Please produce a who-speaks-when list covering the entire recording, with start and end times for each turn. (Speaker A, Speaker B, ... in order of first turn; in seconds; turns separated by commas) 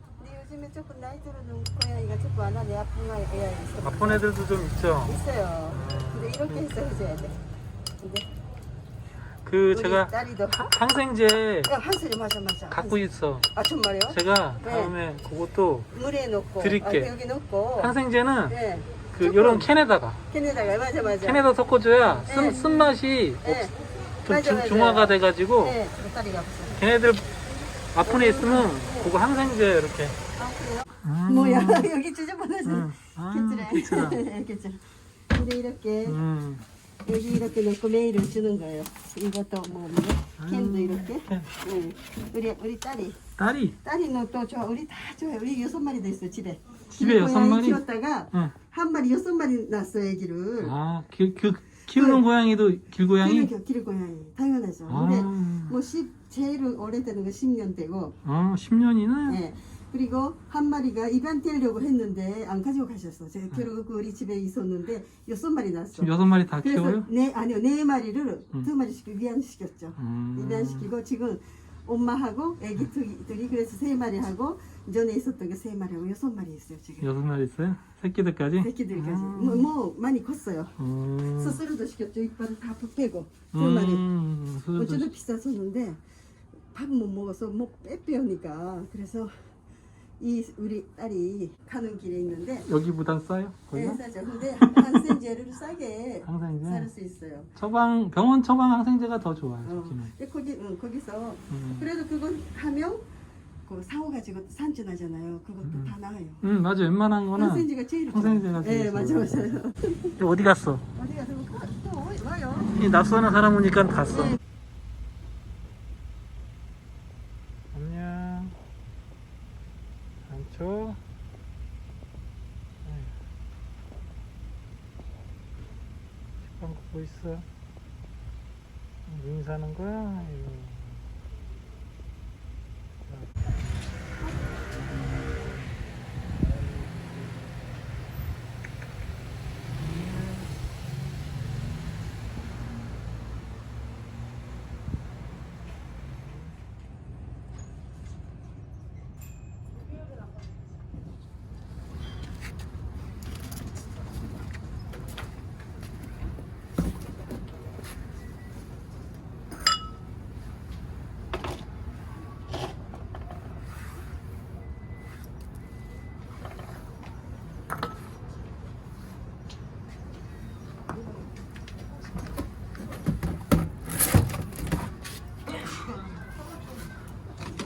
Speaker A: 0.2-4.3, Speaker B: 3.8-5.2, Speaker A: 5.0-7.4, Speaker B: 5.7-7.3, Speaker A: 8.0-8.2, Speaker B: 9.4-11.7, Speaker A: 9.7-10.7, Speaker A: 11.7-13.0, Speaker B: 12.7-13.5, Speaker A: 13.5-14.9, Speaker B: 14.1-15.9, Speaker A: 15.9-17.9, Speaker B: 16.6-17.1, Speaker B: 17.8-18.6, Speaker A: 18.5-19.7, Speaker B: 19.1-20.2, Speaker A: 20.3-21.4, Speaker B: 21.2-23.7, Speaker A: 22.2-26.8, Speaker B: 24.2-25.8, Speaker B: 26.8-27.3, Speaker B: 27.9-30.2, Speaker A: 28.0-29.1, Speaker A: 30.4-36.2, Speaker B: 31.0-31.9, Speaker B: 32.6-34.2, Speaker B: 36.0-36.6, Speaker A: 37.0-43.2, Speaker B: 40.4-41.5, Speaker B: 43.4-43.8, Speaker A: 43.8-50.7, Speaker B: 46.9-48.5, Speaker B: 50.6-53.5, Speaker A: 52.0-52.2, Speaker A: 53.2-58.1, Speaker B: 54.9-55.8, Speaker B: 58.2-59.4, Speaker A: 59.2-77.1, Speaker B: 66.0-67.1, Speaker B: 70.0-70.9, Speaker B: 77.0-79.7, Speaker A: 78.6-84.0, Speaker B: 80.8-81.6, Speaker B: 83.5-85.1, Speaker A: 84.7-86.0, Speaker A: 86.7-89.5, Speaker A: 90.2-92.7, Speaker B: 92.7-94.0, Speaker A: 93.7-97.5, Speaker B: 94.7-95.0, Speaker B: 96.2-96.9, Speaker B: 97.5-100.1, Speaker A: 99.7-103.1, Speaker B: 101.5-101.9, Speaker A: 103.7-106.4, Speaker B: 105.6-109.6, Speaker A: 107.3-110.2, Speaker B: 110.2-110.8, Speaker A: 110.9-112.7, Speaker B: 112.7-114.4, Speaker B: 117.7-118.6, Speaker B: 120.3-121.0, Speaker B: 122.8-123.2, Speaker B: 126.5-127.5, Speaker B: 129.1-131.1